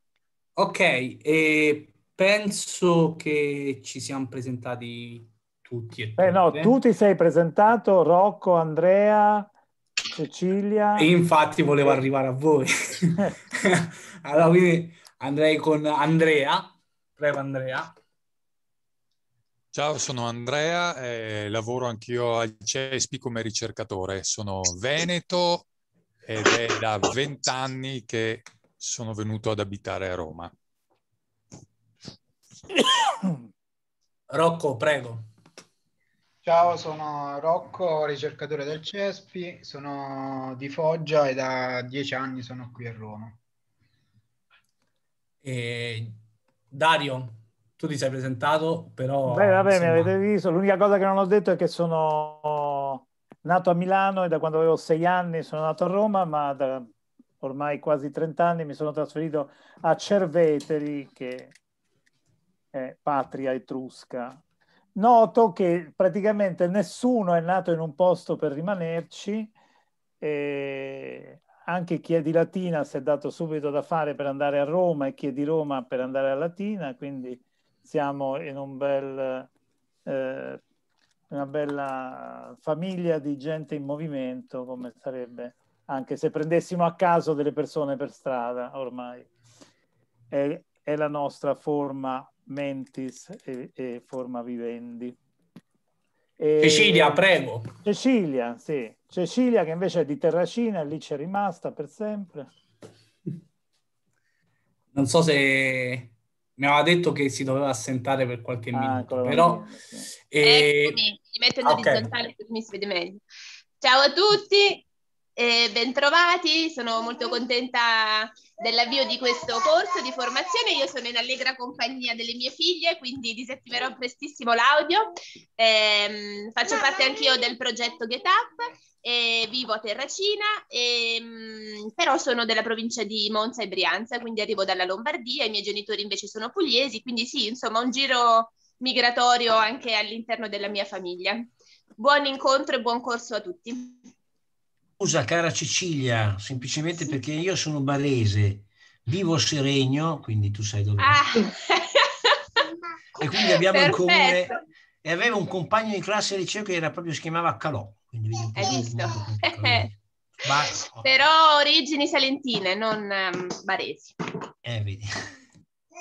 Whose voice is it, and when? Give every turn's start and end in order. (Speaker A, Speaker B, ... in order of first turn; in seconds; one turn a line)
Speaker A: 0.6-6.7
Speaker B: 6.2-9.5
Speaker B: 10.1-11.1
Speaker A: 11.0-17.9
Speaker C: 19.7-25.7
Speaker C: 26.2-30.5
Speaker A: 34.3-35.3
Speaker D: 36.4-43.4
Speaker A: 45.4-46.2
Speaker A: 46.7-50.1
Speaker B: 49.3-56.9
Speaker B: 57.4-61.5
Speaker B: 62.7-64.4
Speaker B: 65.0-69.5
Speaker B: 70.2-79.5
Speaker B: 80.0-80.6
Speaker B: 81.3-89.3
Speaker B: 90.3-95.2
Speaker B: 96.4-97.2
Speaker A: 96.6-97.7
Speaker B: 97.8-102.5
Speaker A: 104.9-109.7
Speaker B: 108.7-110.1
Speaker A: 110.3-111.0
Speaker E: 110.4-113.2
Speaker A: 111.6-112.1
Speaker E: 113.8-114.8
Speaker E: 115.4-144.1
Speaker F: 145.0-151.2
Speaker E: 151.0-152.3
Speaker F: 153.2-161.2
Speaker E: 153.4-154.6
Speaker E: 158.5-159.9
Speaker E: 161.0-164.2
Speaker F: 164.6-165.1